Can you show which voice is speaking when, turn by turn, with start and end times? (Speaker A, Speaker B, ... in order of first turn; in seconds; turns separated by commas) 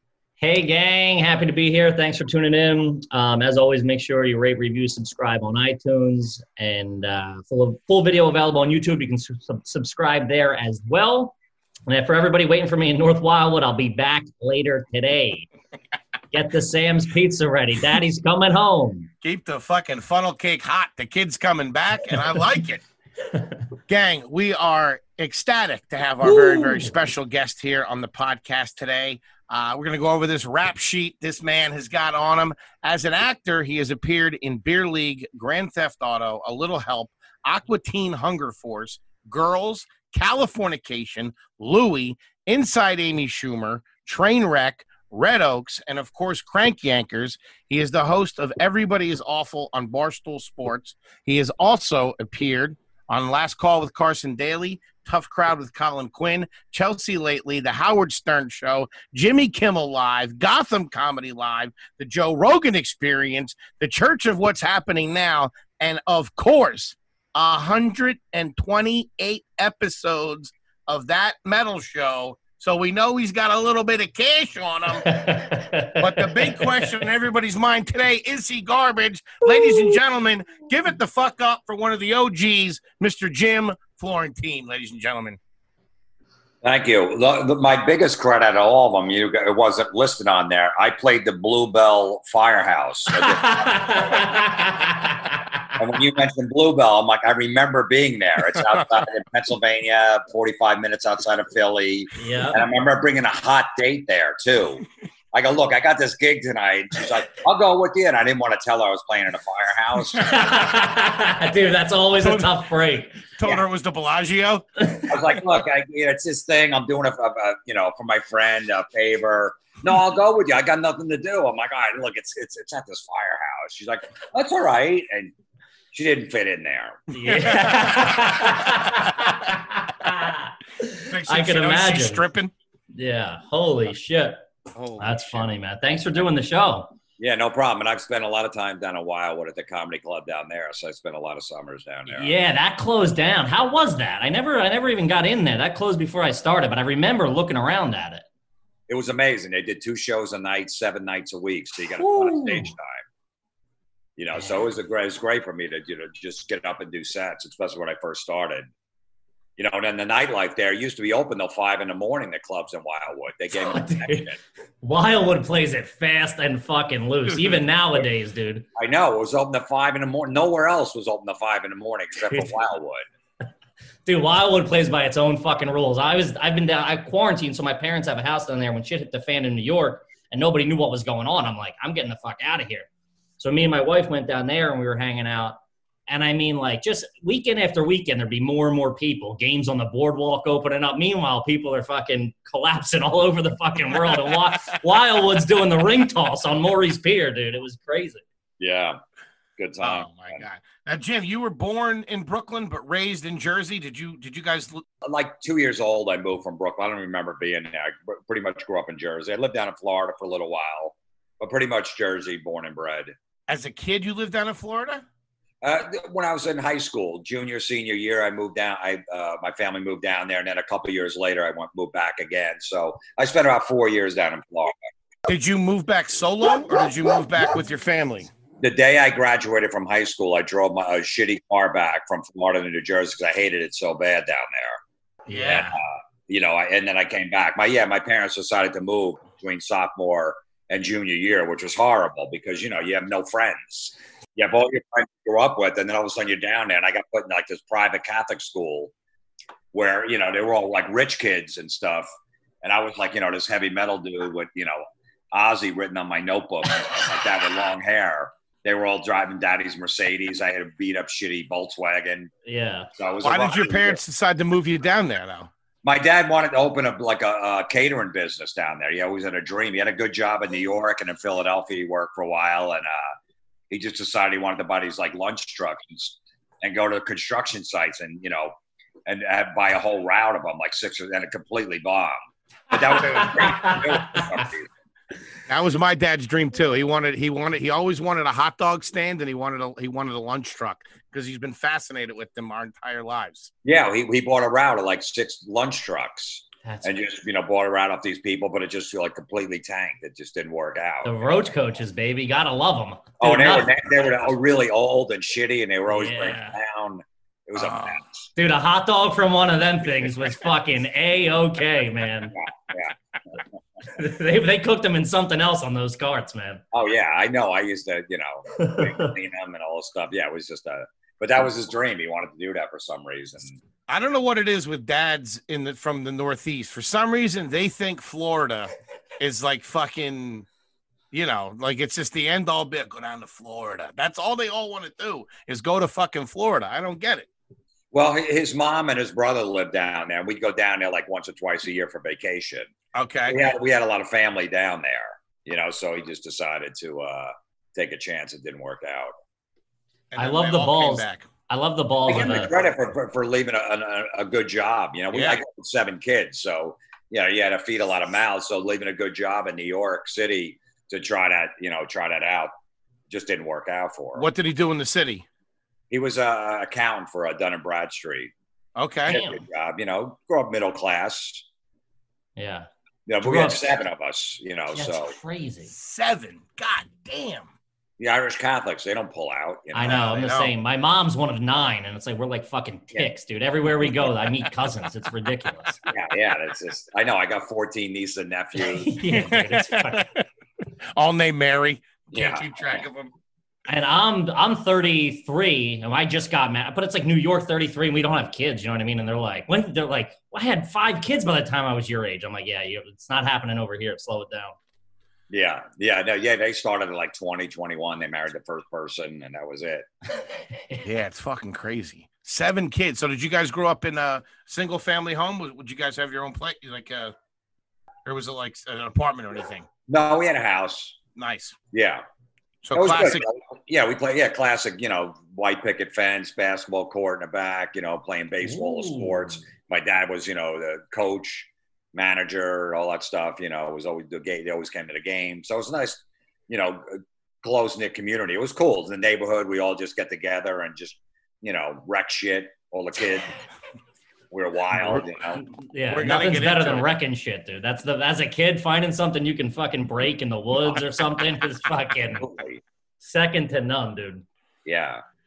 Speaker A: 0.4-11.4, Speaker A: 11.9-15.5, Speaker A: 16.3-19.1, Speaker B: 19.2-22.8, Speaker B: 23.9-75.2, Speaker A: 26.2-26.9, Speaker A: 75.0-77.0, Speaker B: 76.0-85.4, Speaker C: 86.6-94.5, Speaker A: 93.1-95.8, Speaker C: 95.8-110.7, Speaker A: 102.2-102.6, Speaker A: 110.2-113.3, Speaker B: 112.2-112.5, Speaker B: 113.4-114.7, Speaker A: 114.8-115.1, Speaker C: 115.1-125.3, Speaker C: 125.9-127.1, Speaker A: 127.1-132.2, Speaker B: 127.3-128.3, Speaker B: 131.1-132.5, Speaker A: 132.9-134.4, Speaker B: 134.7-135.4, Speaker A: 135.0-136.9, Speaker C: 137.2-142.3, Speaker A: 142.1-148.2, Speaker C: 148.9-153.0, Speaker A: 152.0-152.7, Speaker C: 154.2-158.7, Speaker A: 154.3-154.7, Speaker C: 159.6-164.4, Speaker A: 163.6-164.3, Speaker A: 164.8-168.7, Speaker C: 168.8-173.1, Speaker A: 172.3-172.5, Speaker A: 174.1-182.9, Speaker A: 183.4-198.2, Speaker C: 198.6-199.0, Speaker C: 199.6-200.4, Speaker B: 199.8-204.8, Speaker C: 205.0-213.1, Speaker B: 213.5-215.1, Speaker C: 215.6-224.8, Speaker B: 225.3-228.3, Speaker C: 228.6-234.8, Speaker B: 235.3-235.8, Speaker C: 235.3-248.9, Speaker C: 249.7-252.1, Speaker C: 252.6-262.3, Speaker A: 262.5-262.9, Speaker C: 263.0-264.0, Speaker B: 263.2-265.5, Speaker C: 265.8-273.1, Speaker C: 273.7-282.2, Speaker C: 282.7-284.7, Speaker A: 282.7-284.4, Speaker B: 285.5-293.5, Speaker C: 293.6-301.2, Speaker A: 296.6-297.0, Speaker A: 301.0-303.7, Speaker C: 303.2-308.3, Speaker A: 305.9-306.6, Speaker B: 307.6-308.0, Speaker A: 308.4-312.3, Speaker C: 312.3-312.9, Speaker A: 313.9-316.6, Speaker C: 316.7-323.6, Speaker A: 318.6-319.1, Speaker B: 323.9-330.5, Speaker B: 331.1-337.3, Speaker C: 337.9-342.7, Speaker B: 342.9-343.4, Speaker C: 343.3-349.1, Speaker B: 350.1-351.3, Speaker A: 350.2-352.5, Speaker C: 352.1-362.5, Speaker B: 355.1-355.4, Speaker C: 363.1-364.3, Speaker B: 364.1-365.3, Speaker C: 365.9-368.3, Speaker B: 368.8-369.2, Speaker A: 369.1-369.4, Speaker C: 369.1-371.4, Speaker A: 372.4-372.7, Speaker C: 373.1-375.1, Speaker A: 373.2-373.7, Speaker A: 374.7-375.7, Speaker B: 375.7-377.5, Speaker C: 378.0-380.1, Speaker A: 379.7-385.8, Speaker B: 379.8-380.5, Speaker C: 385.9-388.9, Speaker A: 388.6-390.1, Speaker B: 389.1-390.3, Speaker B: 390.9-393.1, Speaker C: 392.1-392.8, Speaker A: 393.7-404.6, Speaker C: 405.3-409.9, Speaker B: 410.8-417.1, Speaker B: 418.1-419.7, Speaker C: 419.9-421.0, Speaker B: 421.2-421.6, Speaker C: 421.7-422.0, Speaker B: 422.6-423.2, Speaker C: 422.7-443.3, Speaker C: 444.3-445.4, Speaker A: 444.9-452.2, Speaker B: 445.9-446.9, Speaker C: 452.2-452.6, Speaker A: 453.0-454.2, Speaker C: 454.7-455.0